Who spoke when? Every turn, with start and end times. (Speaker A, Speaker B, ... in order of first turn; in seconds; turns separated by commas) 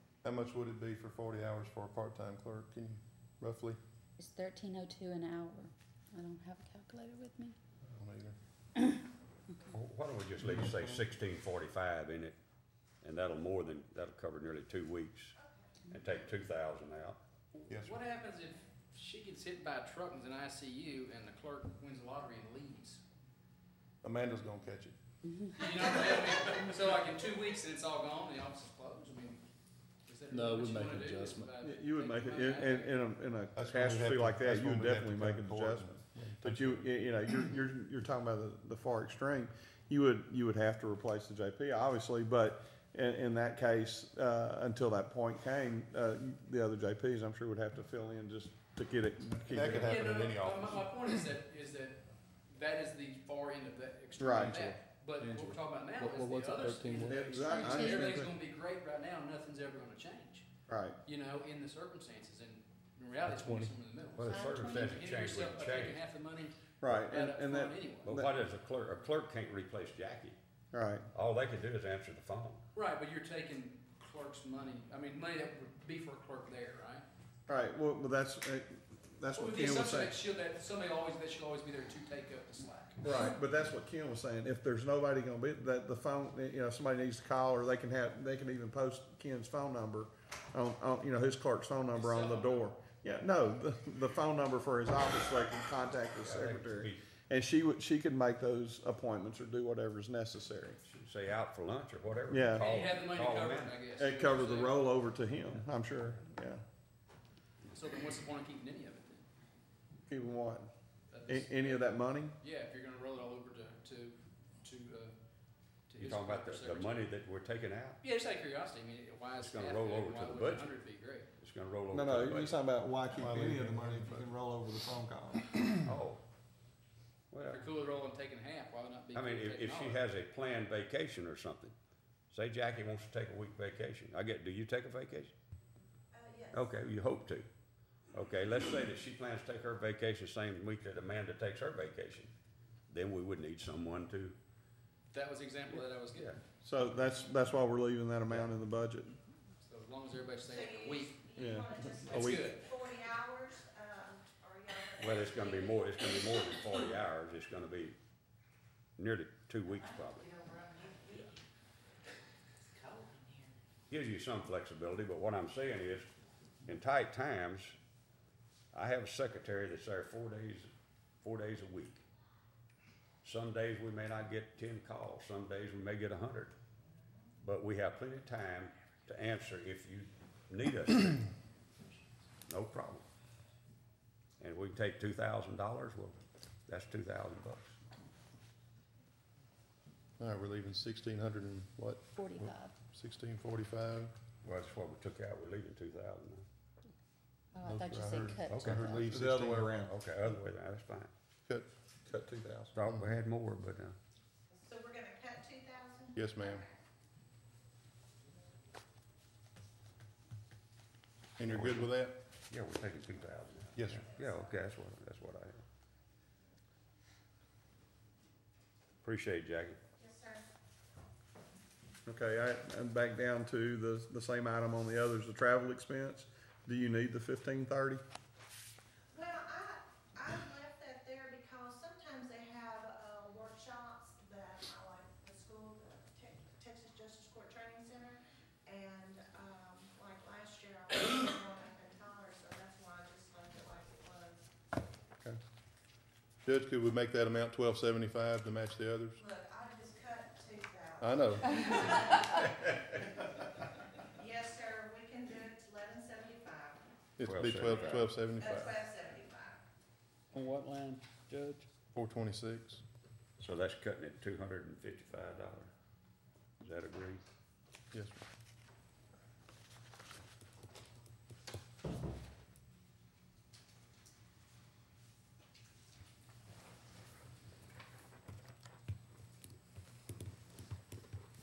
Speaker A: 0.2-3.8, Speaker B: 4.2-7.6, Speaker A: 7.8-8.4, Speaker C: 9.7-12.4, Speaker C: 13.0-15.4, Speaker D: 15.4-15.7, Speaker C: 15.9-17.2, Speaker A: 17.7-17.9, Speaker E: 17.7-23.0, Speaker A: 24.0-24.9, Speaker E: 25.6-29.4, Speaker E: 30.1-33.0, Speaker A: 30.3-31.5, Speaker F: 31.6-49.9, Speaker A: 33.5-36.9, Speaker A: 49.5-50.9, Speaker E: 49.7-60.5, Speaker F: 54.2-54.7, Speaker G: 55.2-57.1, Speaker F: 57.0-58.3, Speaker B: 57.4-58.2, Speaker F: 60.7-61.0, Speaker E: 61.1-68.2, Speaker C: 64.2-66.0, Speaker B: 64.2-65.0, Speaker F: 66.8-68.3, Speaker C: 68.0-70.4, Speaker F: 70.7-71.1, Speaker C: 71.1-72.6, Speaker E: 72.8-77.0, Speaker F: 77.5-80.1, Speaker E: 79.3-83.0, Speaker F: 83.0-100.8, Speaker E: 91.9-92.7, Speaker C: 96.2-97.1, Speaker C: 100.8-103.9, Speaker F: 102.3-102.7, Speaker E: 102.5-104.8, Speaker F: 103.9-106.6, Speaker E: 107.7-109.2, Speaker F: 110.1-110.7, Speaker E: 111.1-115.2, Speaker F: 111.3-112.3, Speaker E: 115.9-117.1, Speaker C: 116.0-118.0, Speaker E: 118.0-121.3, Speaker C: 119.4-120.7, Speaker C: 121.4-122.6, Speaker F: 121.9-125.7, Speaker A: 123.1-124.4, Speaker C: 125.8-126.2, Speaker C: 127.3-127.6, Speaker E: 127.5-130.0, Speaker C: 129.1-131.8, Speaker C: 132.3-135.3, Speaker D: 136.1-136.7, Speaker C: 136.5-137.5, Speaker C: 138.1-142.3, Speaker C: 142.9-144.4, Speaker E: 145.1-146.4, Speaker C: 145.7-146.4, Speaker F: 146.6-149.2, Speaker E: 149.6-151.2, Speaker D: 150.5-156.3, Speaker F: 151.3-152.5, Speaker E: 152.1-152.6, Speaker C: 155.0-158.0, Speaker C: 159.0-160.3, Speaker C: 163.9-166.1, Speaker C: 166.7-167.8, Speaker C: 168.7-170.7, Speaker C: 171.2-172.1, Speaker C: 173.2-176.6, Speaker C: 177.4-181.2, Speaker C: 182.5-183.1, Speaker C: 184.4-187.8, Speaker A: 190.2-194.1, Speaker B: 192.2-192.7, Speaker C: 194.4-196.5, Speaker B: 197.5-199.1, Speaker A: 197.6-199.8, Speaker C: 198.5-198.8, Speaker F: 198.8-200.0, Speaker C: 199.8-201.1, Speaker F: 202.1-202.7, Speaker C: 202.7-204.0, Speaker D: 204.5-206.8, Speaker A: 206.2-206.6, Speaker A: 211.4-212.2, Speaker C: 211.5-211.9, Speaker C: 212.5-215.6, Speaker A: 213.8-214.1, Speaker D: 213.9-214.5, Speaker C: 219.0-219.8, Speaker D: 220.0-220.4, Speaker F: 222.1-228.0, Speaker D: 229.1-244.5, Speaker A: 246.4-249.2, Speaker D: 249.2-252.6, Speaker A: 251.0-251.8, Speaker D: 254.0-256.8, Speaker A: 257.2-258.8, Speaker C: 257.2-258.1, Speaker D: 257.6-259.6, Speaker G: 260.3-261.7, Speaker A: 261.9-262.8, Speaker C: 263.4-265.7, Speaker C: 266.6-267.2, Speaker A: 267.9-268.2